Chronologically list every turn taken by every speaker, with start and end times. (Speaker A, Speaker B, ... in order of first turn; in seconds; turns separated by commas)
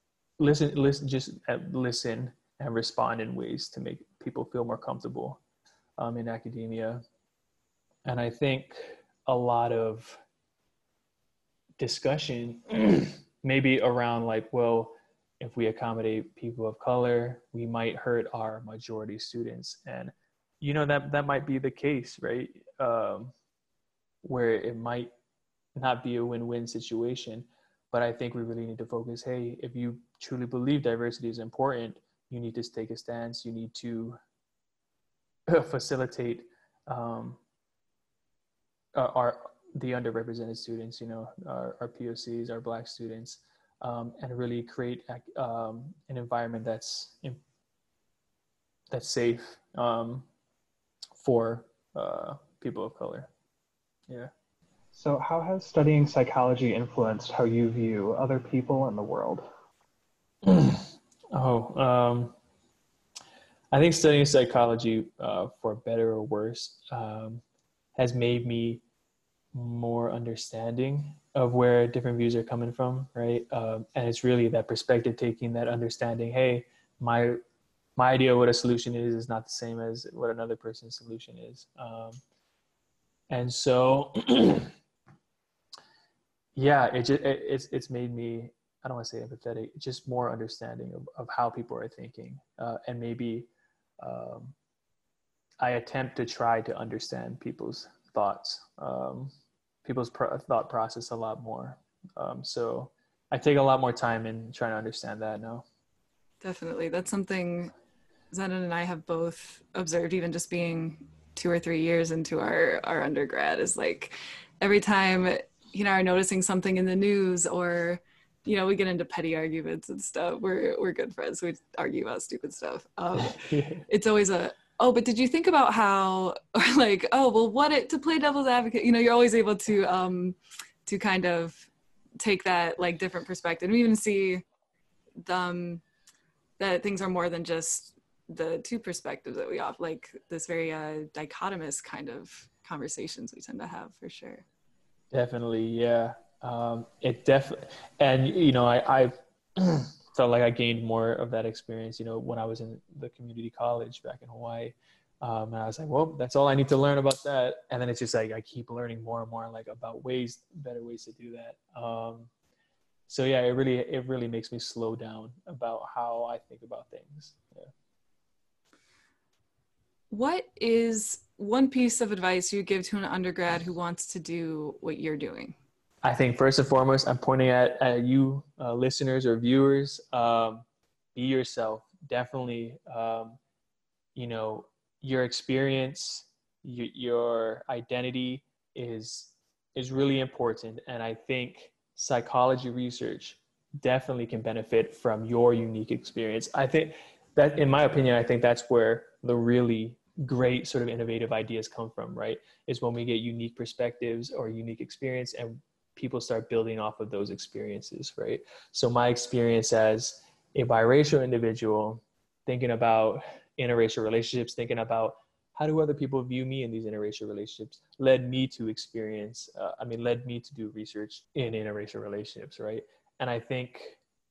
Speaker A: 0.4-5.4, Speaker A: 6.0-7.0, Speaker A: 8.1-10.2, Speaker A: 11.8-23.3, Speaker A: 24.2-25.1, Speaker A: 25.8-34.2, Speaker A: 35.5-37.4, Speaker A: 38.9-47.4, Speaker A: 48.9-50.2, Speaker A: 51.2-53.3, Speaker B: 54.9-59.5, Speaker A: 60.4-62.3, Speaker A: 63.7-67.4, Speaker A: 68.0-68.8, Speaker A: 69.5-77.4, Speaker A: 78.0-82.2, Speaker A: 83.3-84.7, Speaker A: 86.5-93.5, Speaker A: 94.0-94.5, Speaker A: 95.6-99.3, Speaker A: 99.8-105.6, Speaker C: 106.4-107.7, Speaker C: 108.3-131.7, Speaker A: 123.2-123.8, Speaker C: 132.2-134.4, Speaker C: 135.2-135.8, Speaker C: 136.6-144.4, Speaker A: 145.1-162.3, Speaker A: 163.1-167.7, Speaker C: 170.1-175.5, Speaker A: 176.0-183.4, Speaker A: 184.2-224.0